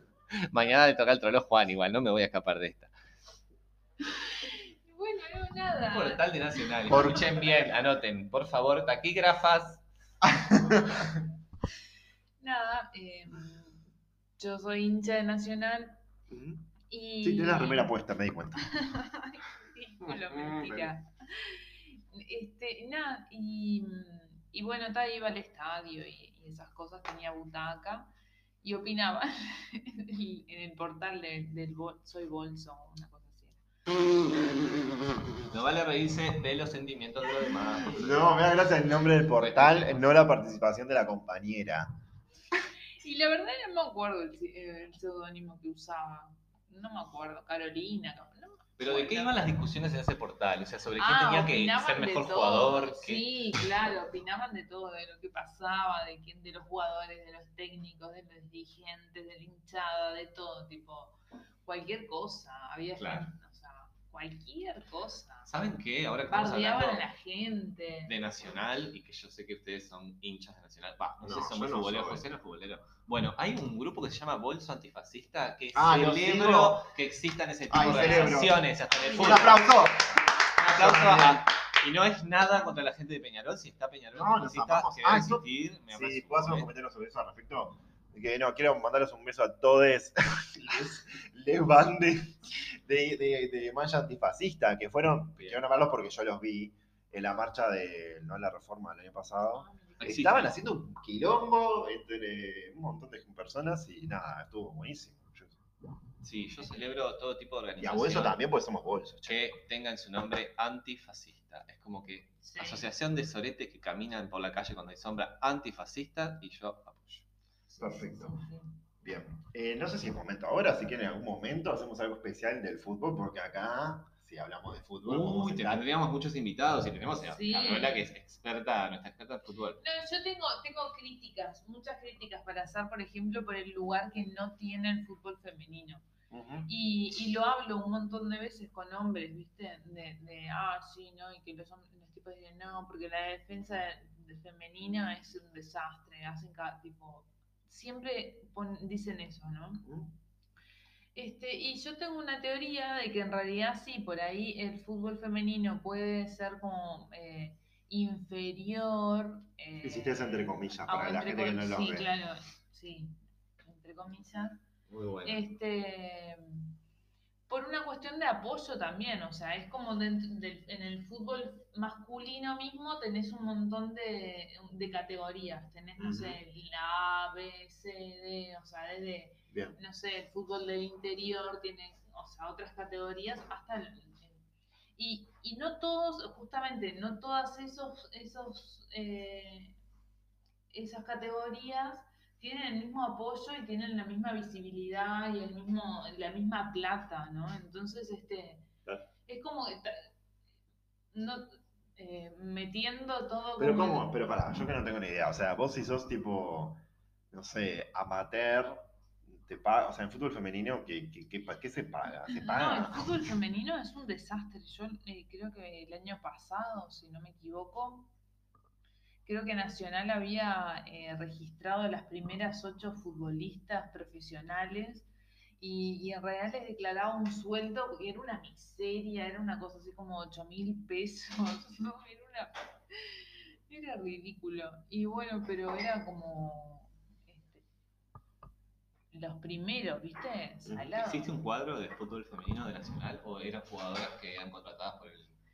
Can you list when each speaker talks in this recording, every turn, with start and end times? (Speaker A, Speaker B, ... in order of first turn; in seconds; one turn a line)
Speaker A: 0.3-2.9
Speaker B: 4.0-7.2
Speaker A: 5.9-9.8
Speaker C: 6.9-7.3
Speaker C: 10.2-11.2
Speaker B: 12.4-13.8
Speaker B: 14.4-16.0
Speaker C: 16.3-16.7
Speaker B: 16.9-17.9
Speaker C: 17.2-18.7
Speaker B: 18.6-33.6
Speaker C: 20.1-20.9
Speaker A: 35.5-38.3
Speaker C: 37.9-41.9
Speaker A: 39.1-40.2
Speaker B: 43.0-49.5
Speaker A: 48.8-53.3
Speaker B: 51.0-65.5
Speaker A: 63.0-63.3
Speaker A: 65.5-67.0
Speaker B: 66.3-68.2
Speaker A: 68.1-79.8
Speaker C: 71.2-72.2
Speaker C: 75.7-76.8
Speaker C: 77.7-78.6
Speaker B: 77.7-79.6
Speaker C: 79.2-81.5
Speaker A: 80.5-86.7
Speaker C: 84.2-105.6
Speaker A: 95.4-95.6
Speaker B: 99.5-100.1
Speaker A: 100.0-100.6
Speaker A: 106.2-108.4
Speaker C: 107.8-109.4
Speaker A: 109.2-117.3
Speaker B: 112.4-112.9
Speaker B: 117.7-118.8
Speaker C: 117.8-118.4
Speaker C: 119.0-125.9
Speaker A: 125.0-129.8
Speaker B: 127.2-128.1
Speaker B: 129.8-136.0
Speaker C: 136.3-136.7
Speaker B: 136.7-149.9
Speaker C: 149.8-150.1
Speaker B: 151.2-163.2
Speaker C: 159.8-162.1
Speaker B: 163.7-164.6
Speaker A: 164.9-165.4
Speaker B: 165.2-166.7
Speaker B: 167.5-184.4
Speaker C: 176.0-176.4
Speaker C: 179.5-179.8
Speaker B: 185.0-189.8
Speaker B: 190.7-198.7
Speaker B: 199.3-200.1
Speaker B: 201.1-204.1
Speaker C: 203.6-206.8
Speaker C: 207.3-213.1
Speaker B: 212.3-218.1
Speaker B: 219.3-225.1
Speaker B: 225.6-237.7
Speaker B: 239.1-241.3
Speaker A: 241.0-245.4